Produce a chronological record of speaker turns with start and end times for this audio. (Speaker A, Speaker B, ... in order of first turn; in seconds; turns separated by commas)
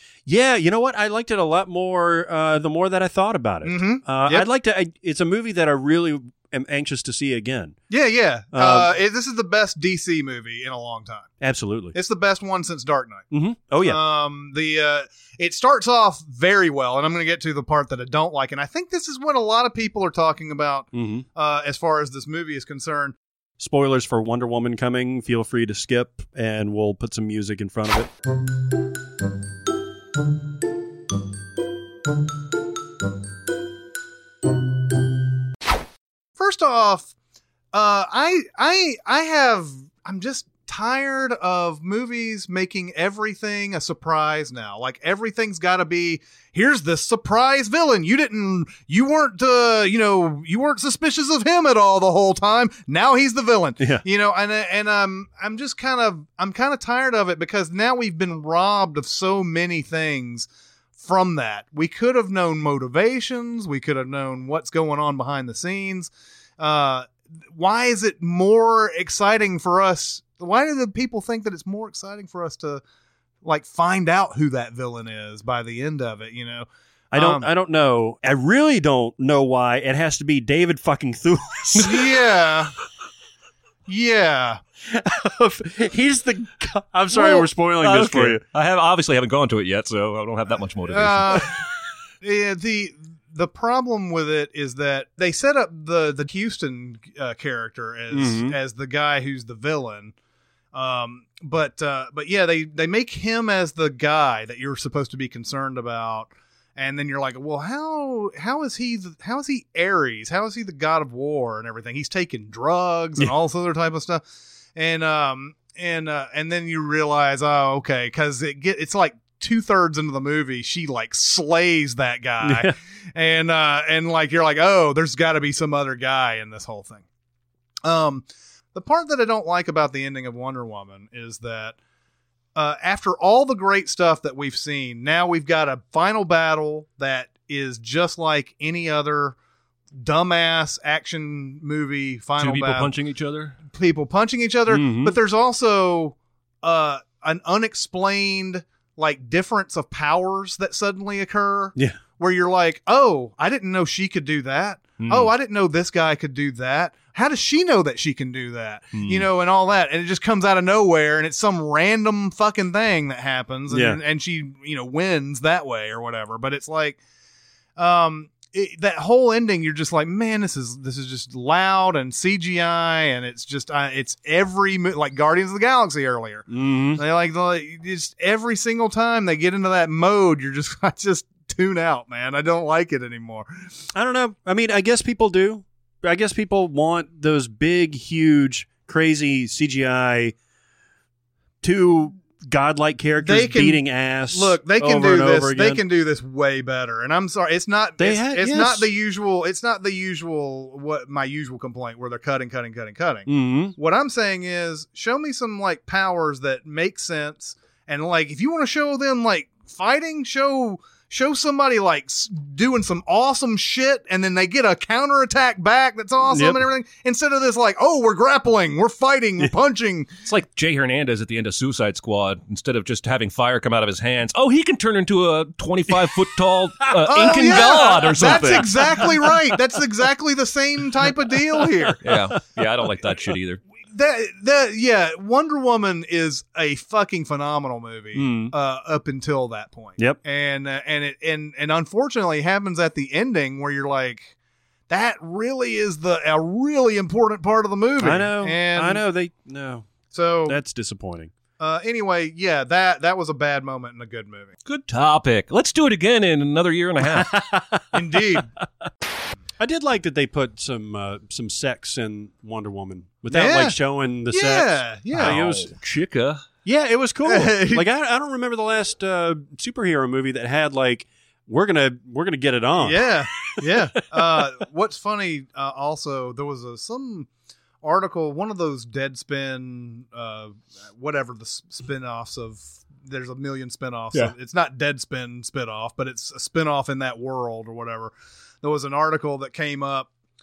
Speaker A: 0.2-7.8, Speaker B: 3.6-4.5, Speaker B: 7.9-11.3, Speaker A: 8.5-8.9, Speaker A: 11.4-11.9, Speaker B: 11.9-13.3, Speaker A: 13.3-14.0, Speaker B: 13.8-23.1, Speaker A: 20.9-21.2, Speaker A: 23.6-28.1, Speaker B: 36.4-37.1, Speaker B: 37.7-60.5, Speaker B: 61.0-72.8, Speaker B: 73.4-77.5, Speaker A: 77.1-82.2, Speaker B: 81.8-82.7, Speaker B: 83.9-84.6, Speaker A: 84.9-88.4, Speaker B: 87.2-87.4, Speaker C: 87.8-91.5, Speaker B: 90.9-91.5, Speaker B: 92.2-100.1, Speaker A: 98.1-98.5, Speaker B: 100.7-114.2, Speaker B: 114.7-127.0, Speaker A: 122.4-122.7, Speaker B: 127.8-131.7, Speaker B: 132.5-139.3, Speaker B: 140.0-142.9, Speaker C: 142.4-143.6, Speaker B: 143.7-167.0, Speaker A: 144.7-145.1, Speaker C: 155.0-155.3, Speaker C: 158.9-159.2, Speaker A: 163.7-164.0, Speaker B: 167.8-176.4, Speaker A: 176.5-177.0, Speaker B: 176.9-183.7, Speaker A: 183.9-190.3, Speaker A: 191.6-195.8, Speaker B: 193.2-220.1, Speaker A: 198.0-198.9, Speaker A: 203.3-203.7, Speaker A: 216.3-216.6, Speaker C: 220.2-229.0, Speaker B: 227.0-232.0, Speaker A: 227.6-229.4, Speaker A: 231.3-232.3, Speaker C: 232.0-233.6, Speaker B: 233.9-244.3, Speaker A: 238.1-238.5, Speaker B: 244.9-249.0, Speaker A: 248.0-249.9, Speaker B: 250.1-250.6, Speaker A: 250.5-251.3, Speaker B: 251.6-254.5, Speaker C: 254.7-257.4, Speaker A: 257.1-258.9, Speaker B: 257.9-258.5, Speaker A: 259.6-265.8, Speaker B: 263.3-263.7, Speaker B: 264.3-265.4, Speaker C: 265.1-266.4, Speaker A: 266.6-274.5, Speaker B: 267.2-267.8, Speaker B: 272.8-277.3, Speaker B: 277.8-290.1